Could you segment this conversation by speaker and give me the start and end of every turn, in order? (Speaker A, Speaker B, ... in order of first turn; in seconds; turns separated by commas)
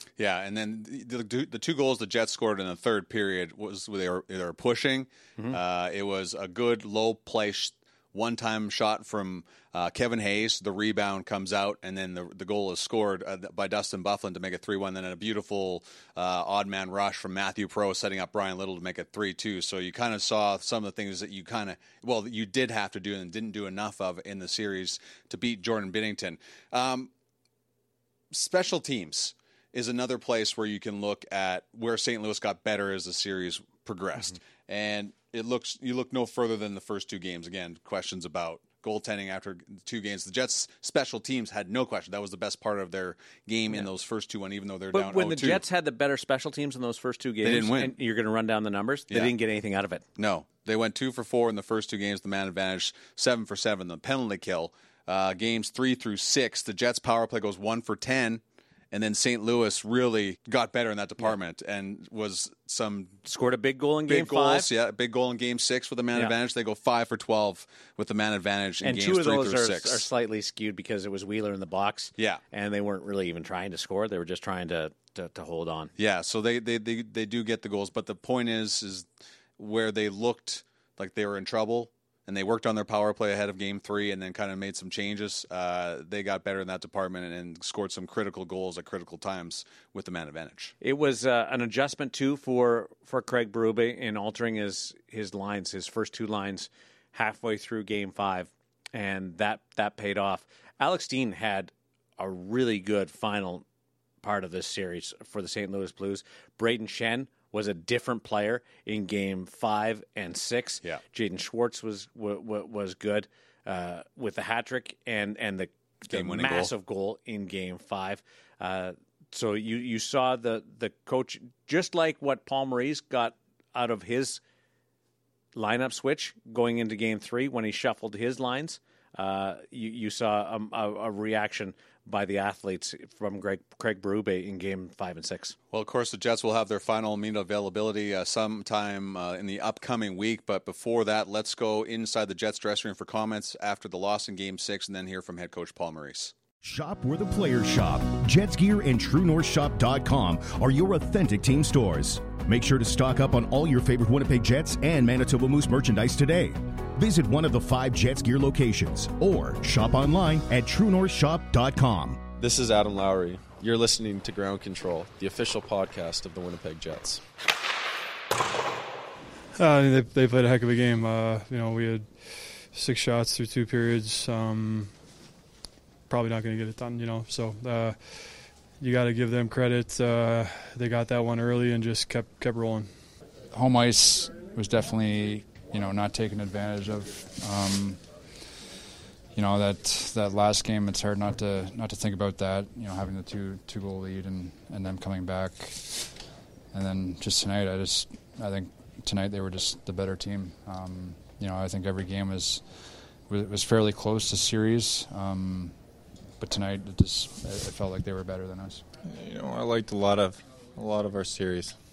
Speaker A: 0.2-27.1, Speaker A: 28.3-45.6, Speaker B: 44.9-50.0, Speaker A: 47.4-48.0, Speaker A: 49.1-49.4, Speaker A: 50.1-63.2, Speaker B: 63.2-64.7, Speaker A: 64.1-70.1, Speaker B: 68.8-75.9, Speaker A: 76.0-79.1, Speaker A: 79.6-90.7, Speaker B: 90.8-103.6, Speaker B: 104.2-124.4, Speaker A: 116.1-116.7, Speaker B: 125.5-135.6, Speaker A: 135.7-146.3, Speaker C: 146.6-162.3, Speaker D: 162.4-167.2, Speaker E: 169.5-175.0, Speaker E: 176.1-183.1, Speaker F: 183.5-188.6, Speaker F: 189.3-205.8, Speaker F: 206.4-208.8, Speaker G: 209.0-211.8